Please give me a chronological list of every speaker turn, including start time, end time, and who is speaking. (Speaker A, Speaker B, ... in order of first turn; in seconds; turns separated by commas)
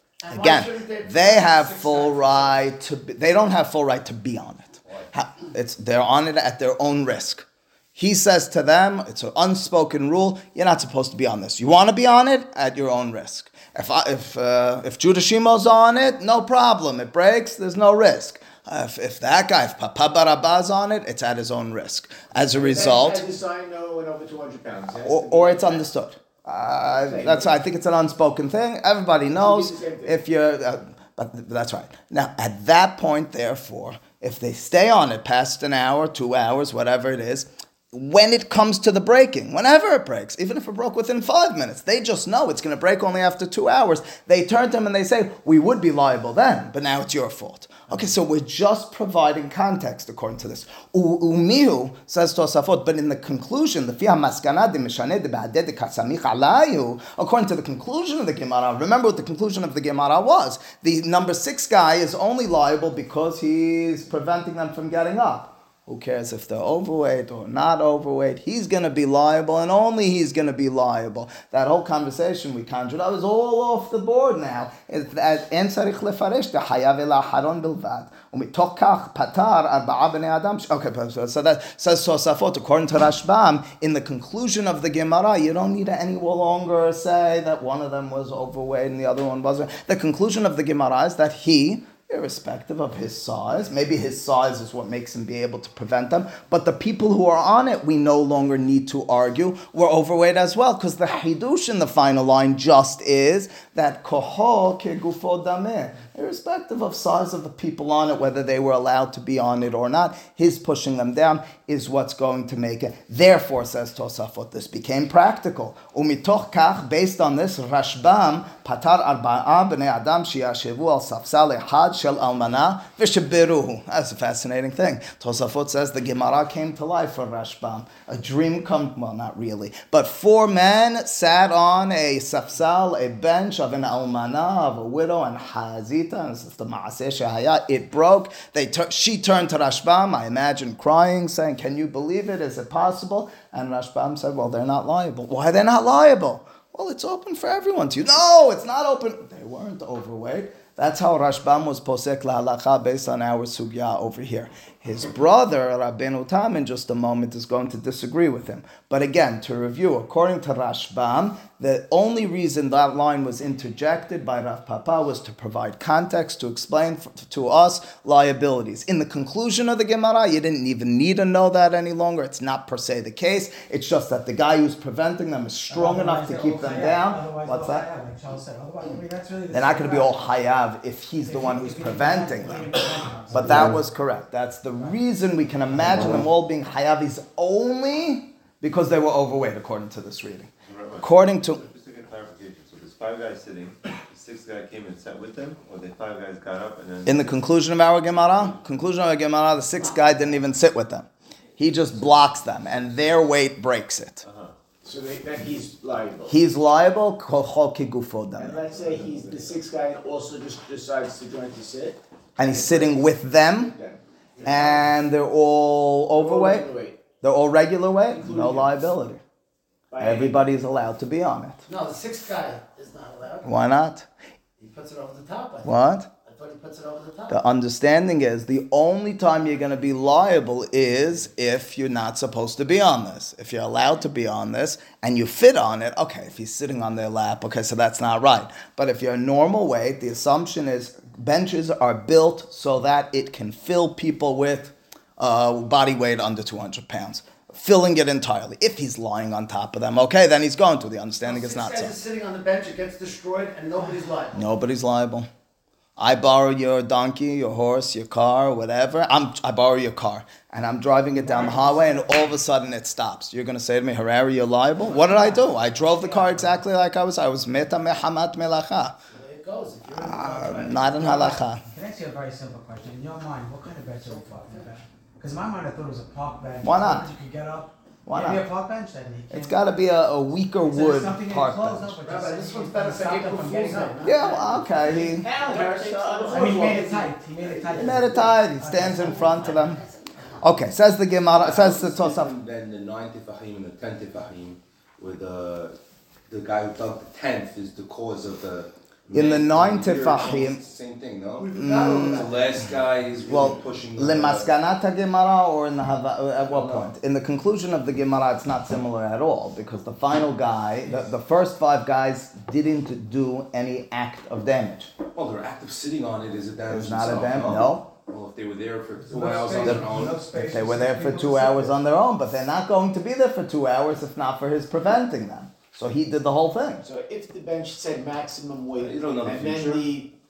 Speaker A: 0.2-2.6, Speaker B: 0.3-23.2, Speaker C: 22.5-25.9, Speaker B: 25.1-177.9, Speaker C: 27.0-27.6, Speaker C: 29.3-30.2, Speaker D: 175.7-180.3, Speaker B: 179.5-191.6, Speaker D: 181.2-183.8, Speaker E: 190.7-197.4, Speaker B: 197.1-201.1, Speaker B: 201.6-204.2, Speaker E: 204.2-204.5, Speaker C: 204.8-206.3, Speaker B: 206.3-208.6, Speaker C: 208.4-213.0, Speaker B: 212.4-213.8, Speaker C: 213.7-214.8, Speaker B: 214.4-216.7, Speaker C: 216.2-217.0, Speaker B: 217.2-219.2, Speaker C: 218.1-218.7, Speaker C: 219.9-220.4, Speaker B: 220.0-221.6, Speaker A: 221.7-223.5, Speaker B: 223.4-224.1, Speaker A: 224.6-225.7, Speaker B: 225.6-226.1, Speaker A: 226.2-227.4, Speaker B: 227.3-251.9, Speaker A: 251.2-254.4, Speaker B: 254.3-255.3, Speaker B: 256.0-269.0, Speaker A: 261.4-262.0, Speaker A: 269.1-271.4, Speaker B: 269.9-271.6, Speaker D: 271.7-279.6, Speaker A: 274.0-274.7, Speaker B: 276.6-277.1, Speaker B: 278.1-278.4, Speaker B: 279.3-282.0, Speaker D: 280.6-284.8, Speaker A: 282.0-287.1, Speaker B: 284.0-285.3, Speaker C: 285.2-287.9, Speaker D: 286.3-289.8, Speaker B: 287.7-289.8, Speaker A: 289.0-290.0, Speaker B: 290.4-292.4, Speaker F: 291.3-295.8, Speaker F: 296.3-304.5, Speaker B: 299.1-300.6, Speaker A: 301.4-302.8, Speaker B: 301.6-302.4, Speaker B: 303.2-314.9, Speaker F: 306.4-306.9, Speaker F: 315.1-320.2, Speaker B: 316.7-317.9, Speaker D: 319.0-321.8, Speaker B: 319.6-326.9, Speaker C: 326.8-330.1, Speaker F: 328.8-329.9